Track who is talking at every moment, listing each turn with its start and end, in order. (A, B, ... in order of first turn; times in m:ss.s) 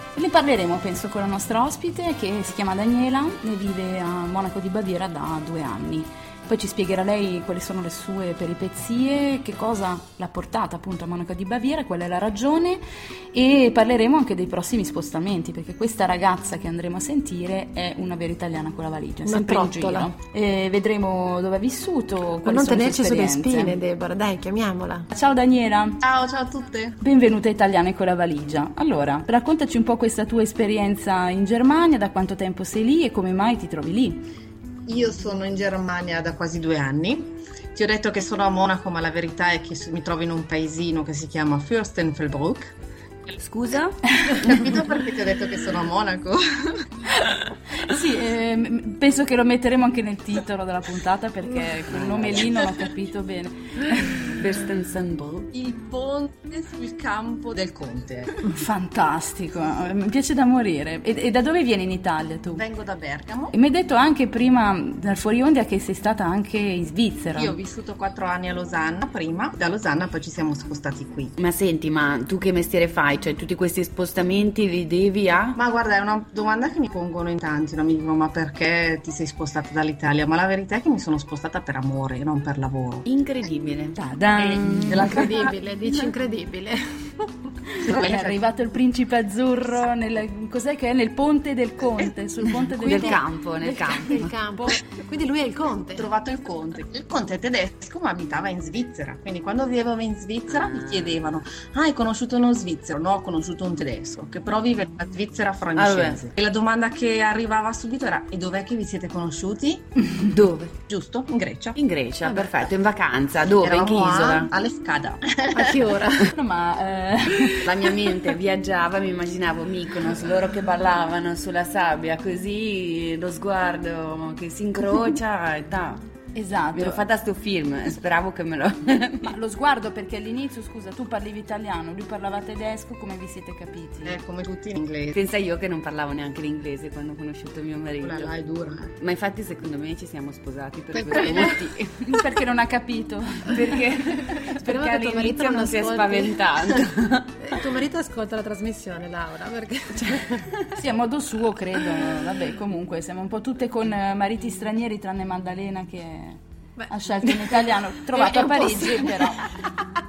0:00.1-0:12.8 A
0:13.3-0:23.8 A
0:19.2-0:20.1 B
0:22.4-0:25.1 B
0:25.1-0:26.0 A
0:26.0-0:27.0 C
0:27.0-0:34.2 A
0:34.8-0:42.7 C
0:43.4-0:44.0 D
0:44.4-0:46.8 C
0:47.8-0:54.4 A
0:51.9-0:52.5 D
0:54.4-0:55.5 D
0:55.5-0:58.3 C
0:58.5-1:02.6 A
1:02.5-1:03.5 C
1:03.5-1:07.6 A
1:07.3-1:11.3 C
1:11.4-1:15.6 D
1:15.5-1:23.1 C
1:23.0-1:24.0 D
1:24.0-1:25.5 A
1:24.4-1:24.9 C
1:24.9-1:27.3 B
1:27.8-1:33.2 A
1:27.8-1:28.4 C
1:32.8-1:34.3 D
1:33.6-1:36.1 B
1:35.9-1:49.8 C
1:40.5-1:41.2 D
1:45.8-1:46.2 D
1:50.2-1:50.7 D
1:50.9-1:52.7 C
1:51.8-1:54.5 D
1:53.6-1:55.8 C
1:55.5-1:56.3 B
1:56.3-1:57.6 A
1:57.6-2:06.0 D
2:06.3-2:07.0 A
2:06.7-2:09.3 D
2:09.2-2:14.2 A
2:14.0-2:15.2 C
2:15.1-2:18.3 D
2:18.0-2:18.9 C
2:19.0-2:21.9 D
2:21.2-2:21.4 A
2:22.0-2:25.4 A
2:24.6-2:26.5 B
2:25.2-2:27.4 D
2:27.4-2:30.5 B
2:30.7-2:39.7 A
2:36.8-2:37.6 B
2:38.2-2:39.2 B